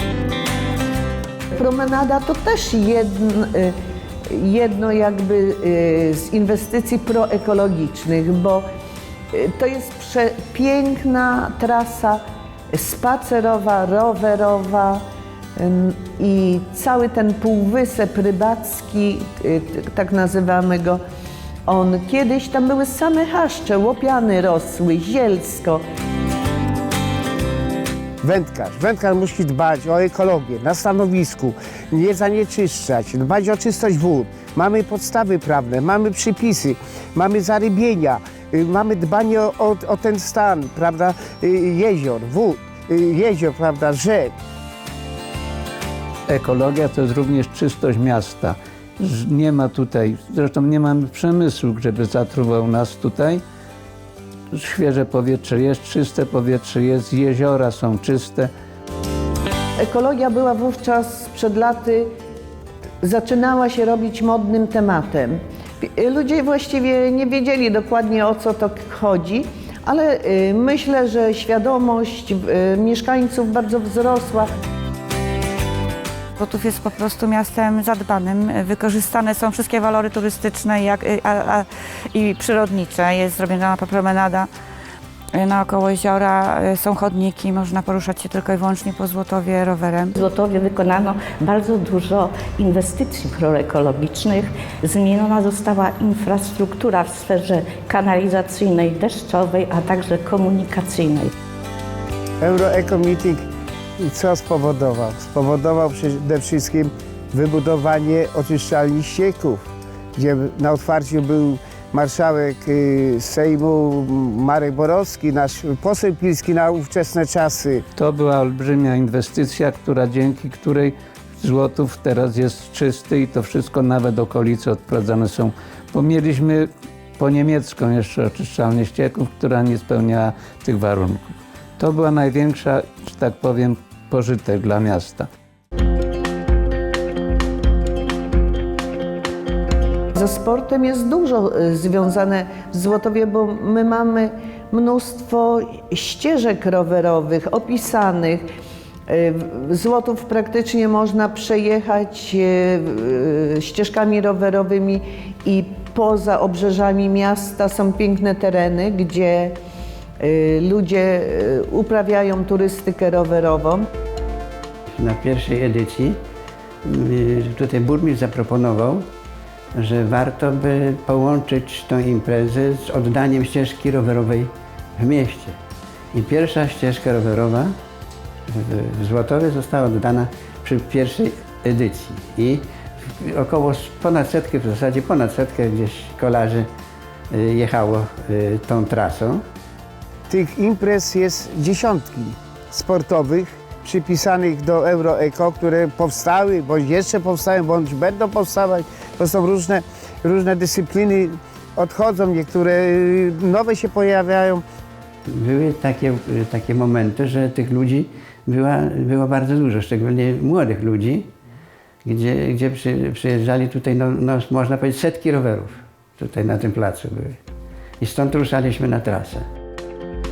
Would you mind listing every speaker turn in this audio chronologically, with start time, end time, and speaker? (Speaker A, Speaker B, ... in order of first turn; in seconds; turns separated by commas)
Speaker A: 1.5-3.7, Speaker A: 4.3-8.7, Speaker A: 9.3-12.2, Speaker A: 12.7-15.0, Speaker A: 15.6-21.0, Speaker A: 21.6-25.8, Speaker B: 28.2-44.3, Speaker C: 46.3-53.4, Speaker C: 54.5-58.5, Speaker A: 59.8-62.1, Speaker A: 63.0-74.5, Speaker D: 76.4-84.5, Speaker D: 85.3-90.2, Speaker E: 90.2-101.3, Speaker B: 102.4-103.4, Speaker B: 104.0-109.6, Speaker B: 110.2-117.8, Speaker C: 118.0-135.3, Speaker A: 140.2-148.4, Speaker A: 149.1-159.5, Speaker A: 160.2-163.8, Speaker F: 164.9-166.2, Speaker F: 166.8-169.1, Speaker F: 169.7-175.6, Speaker F: 176.1-177.8, Speaker F: 178.5-186.7, Speaker F: 187.3-189.4, Speaker B: 190.3-204.6, Speaker F: 205.3-211.3, Speaker F: 212.0-217.4, Speaker F: 218.0-219.4